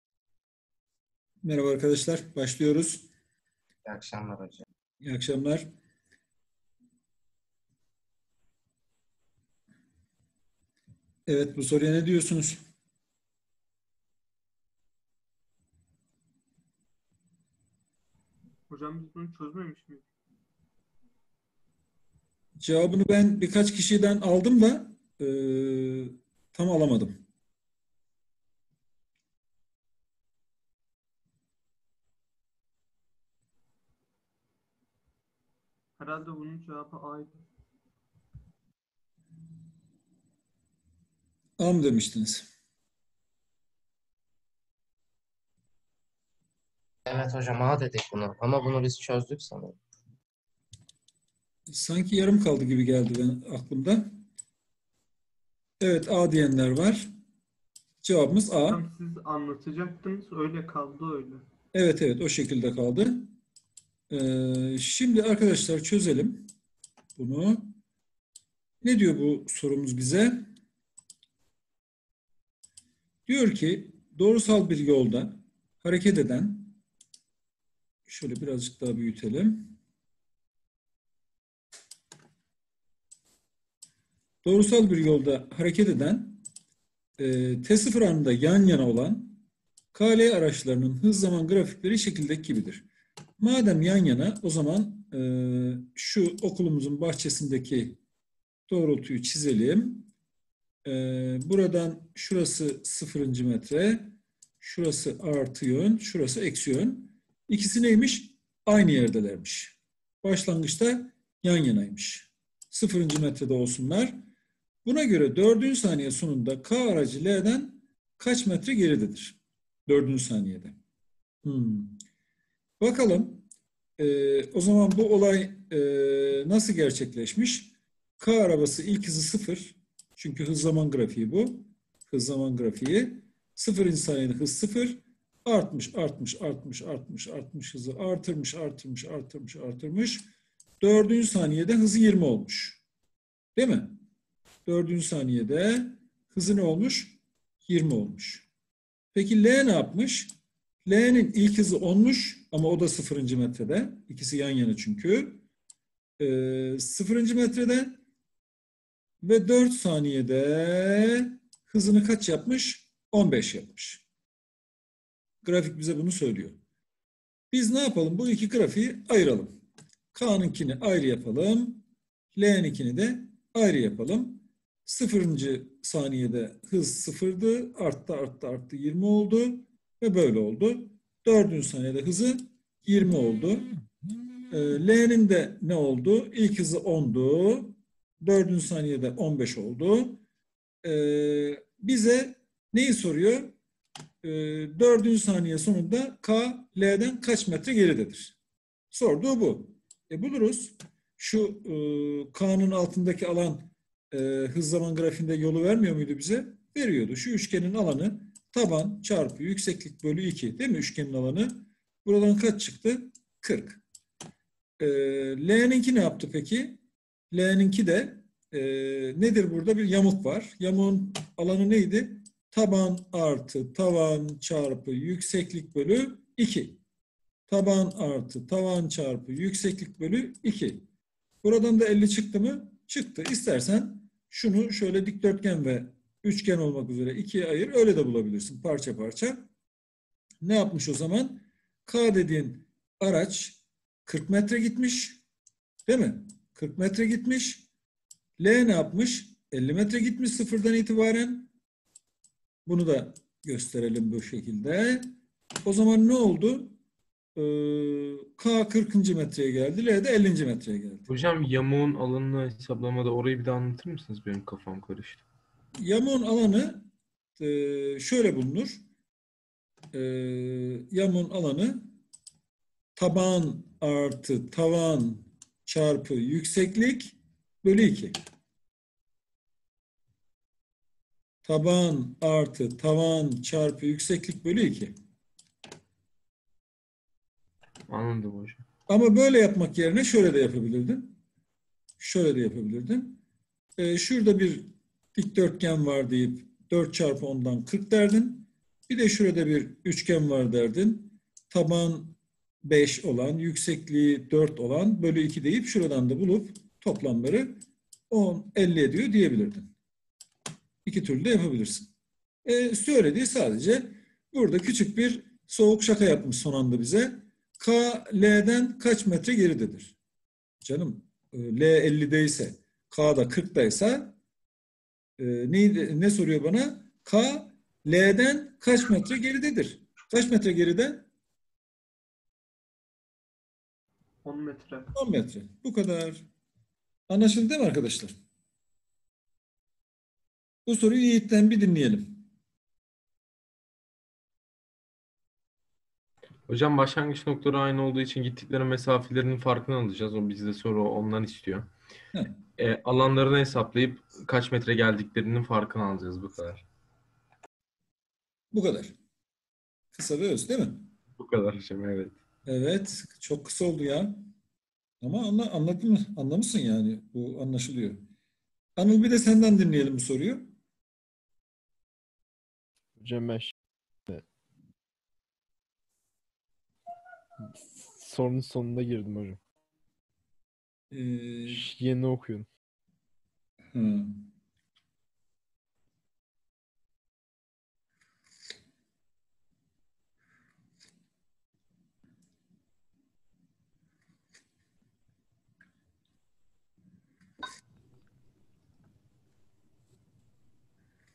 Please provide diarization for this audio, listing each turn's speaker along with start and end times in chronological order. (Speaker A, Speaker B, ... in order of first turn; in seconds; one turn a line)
Speaker A: 1.4-3.1
Speaker B: 3.9-4.7
Speaker A: 5.0-5.7
Speaker A: 11.3-12.6
Speaker C: 18.7-20.1
Speaker A: 22.6-27.2
Speaker C: 36.0-37.5
Speaker A: 41.6-42.5
Speaker B: 47.1-49.8
Speaker A: 51.7-54.2
Speaker A: 55.8-57.1
Speaker A: 58.0-58.8
Speaker C: 58.7-61.5
Speaker A: 61.7-63.3
Speaker A: 64.1-66.5
Speaker A: 67.2-67.8
Speaker A: 68.8-70.5
Speaker A: 73.3-76.8
Speaker A: 78.1-79.7
Speaker A: 84.4-86.4
Speaker A: 87.2-89.4
Speaker A: 89.9-92.9
Speaker A: 93.4-98.0
Speaker A: 98.7-100.1
Speaker A: 100.8-114.2
Speaker A: 114.8-120.8
Speaker A: 121.4-122.0
Speaker A: 122.8-123.5
Speaker A: 124.0-140.3
Speaker A: 140.8-142.8
Speaker A: 143.6-144.0
Speaker A: 144.7-148.5
Speaker A: 149.1-150.3
Speaker A: 150.8-155.4
Speaker A: 156.2-158.0
Speaker A: 159.2-164.0
Speaker A: 165.4-166.6
Speaker A: 167.5-169.5
Speaker A: 170.1-183.7
Speaker A: 184.5-190.2
Speaker A: 190.8-193.5
Speaker A: 194.2-198.4
Speaker A: 198.9-213.8
Speaker A: 214.8-216.8
Speaker A: 217.3-226.8
Speaker A: 227.5-230.8
Speaker A: 231.4-239.5
Speaker A: 240.4-245.2
Speaker A: 245.9-247.7
Speaker A: 248.4-251.5
Speaker A: 252.7-255.1
Speaker A: 255.7-256.8
Speaker A: 257.4-261.1
Speaker D: 261.1-265.2
Speaker A: 265.8-266.9
Speaker A: 267.4-268.8
Speaker A: 269.9-271.9
Speaker A: 273.0-278.1
Speaker A: 281.4-284.9
Speaker D: 287.9-288.6
Speaker A: 288.9-291.2
Speaker A: 292.0-293.2
Speaker A: 293.8-309.7
Speaker A: 310.9-311.9
Speaker A: 312.4-319.9
Speaker A: 320.6-324.1
Speaker A: 325.2-331.1
Speaker C: 334.2-334.9
Speaker A: 334.9-336.3
Speaker A: 337.1-338.2
Speaker A: 340.7-342.3
Speaker D: 346.5-351.7
Speaker D: 352.6-356.7
Speaker A: 358.5-358.9
Speaker A: 359.9-360.9
Speaker D: 361.2-362.1
Speaker A: 362.5-364.2
Speaker A: 365.0-368.0
Speaker A: 368.8-370.5
Speaker E: 373.0-373.5
Speaker E: 377.6-379.4
Speaker A: 380.9-381.7
Speaker E: 381.5-382.5
Speaker A: 383.7-384.2